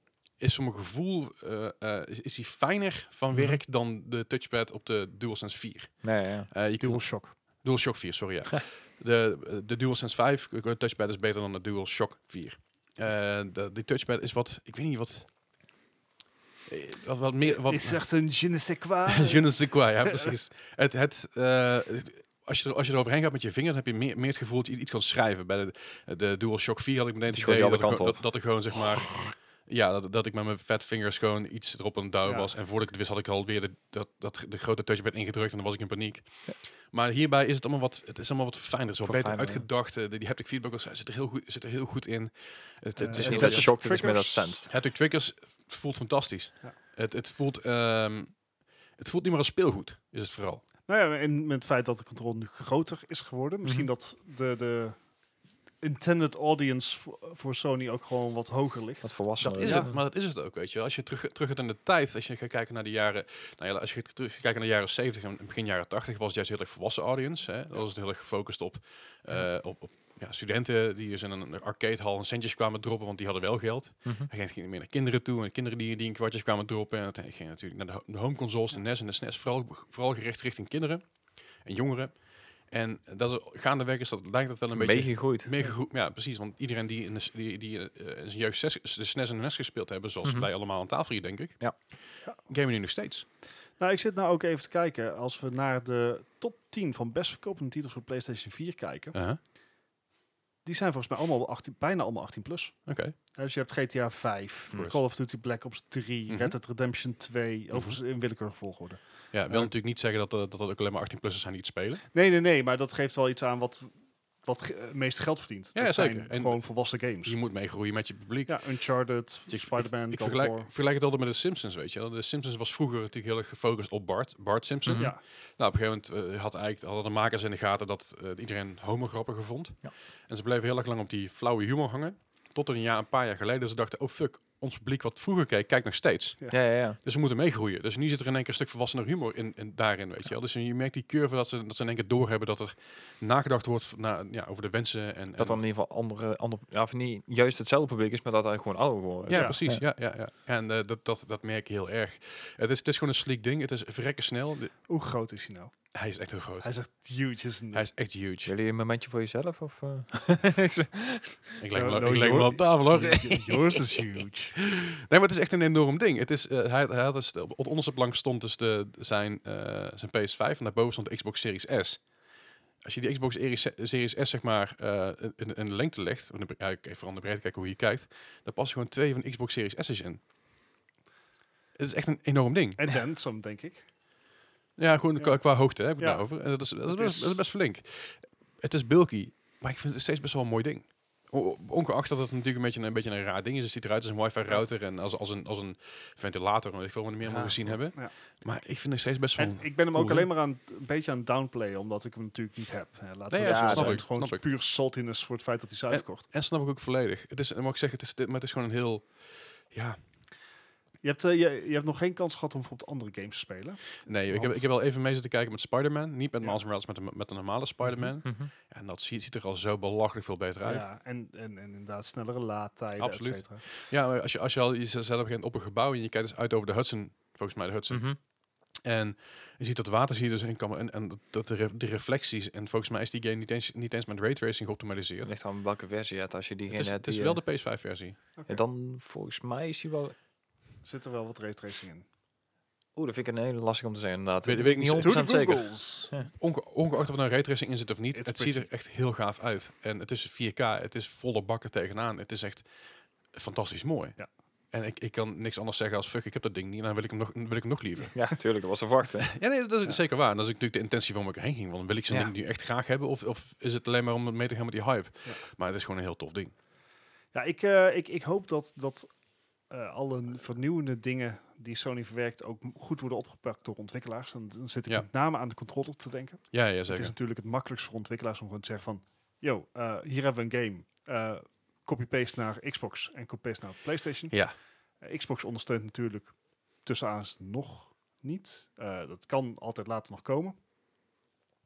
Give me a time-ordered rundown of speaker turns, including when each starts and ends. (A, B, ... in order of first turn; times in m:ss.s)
0:00.4-0:15.3 A
0:03.3-0:03.6 B
0:06.0-0:06.5 B
0:06.8-0:07.4 C
0:16.7-0:18.3 A
0:17.5-0:20.3 C
0:19.1-0:44.0 A
0:27.3-0:28.2 B
0:32.2-0:32.5 C
0:39.0-0:39.7 B
0:43.0-0:44.7 B
0:43.0-0:44.6 C
0:44.7-0:48.4 A
0:49.0-0:50.6 A
0:50.9-0:55.0 C
0:53.6-0:53.9 B
0:55.8-0:59.9 C
0:59.0-0:59.9 B
0:59.4-1:33.3 A
1:14.0-1:14.3 B
1:24.7-1:25.7 B
1:30.2-1:30.5 B
1:33.8-1:39.2 C
1:39.1-1:39.4 A
1:40.6-1:49.7 C
1:42.9-1:43.1 A
1:44.7-1:45.0 A
1:46.3-1:46.6 A
1:47.7-1:48.0 A
1:49.3-1:52.0 A
1:52.1-1:57.4 C
1:55.7-1:58.9 A
1:58.5-2:00.7 C
1:59.5-2:25.6 A
2:04.9-2:05.1 B
2:05.0-2:05.2 C
2:16.5-2:17.0 B
2:25.4-2:29.8 B
2:29.3-2:34.7 A
2:29.3-2:29.6 C
2:34.9-2:35.7 C
2:35.9-2:36.7 A
2:36.6-2:37.9 C
2:37.7-2:38.5 A
2:38.4-2:41.6 B
2:41.6-2:43.6 A
2:41.7-2:44.6 C
2:44.6-2:52.1 A
2:52.8-3:00.2 A
3:01.8-3:02.8 A
3:02.8-3:03.9 C
3:04.8-3:20.3 A
3:05.2-3:07.4 C
3:17.2-3:17.8 B
3:19.4-3:26.3 C
3:23.3-3:24.4 A
3:23.4-3:24.0 B
3:25.9-3:30.0 A
3:31.0-3:34.7 C
3:34.0-3:40.9 A
3:37.9-3:38.5 B
3:40.6-3:43.6 C
3:43.0-3:48.3 A
3:47.9-3:48.2 B
3:48.8-3:55.3 A
3:55.2-3:57.4 B
3:56.7-3:58.2 A
3:58.4-3:58.6 C
3:58.5-4:00.1 B
4:00.8-4:02.0 C
4:03.0-4:06.3 B
4:04.4-4:05.3 A
4:05.0-4:06.1 C
4:06.4-4:12.7 A
4:08.1-4:08.7 C
4:13.3-4:14.2 A
4:14.7-4:18.4 A
4:18.1-4:19.4 B
4:19.3-4:26.5 A
4:27.3-4:50.6 C
4:36.5-4:37.1 A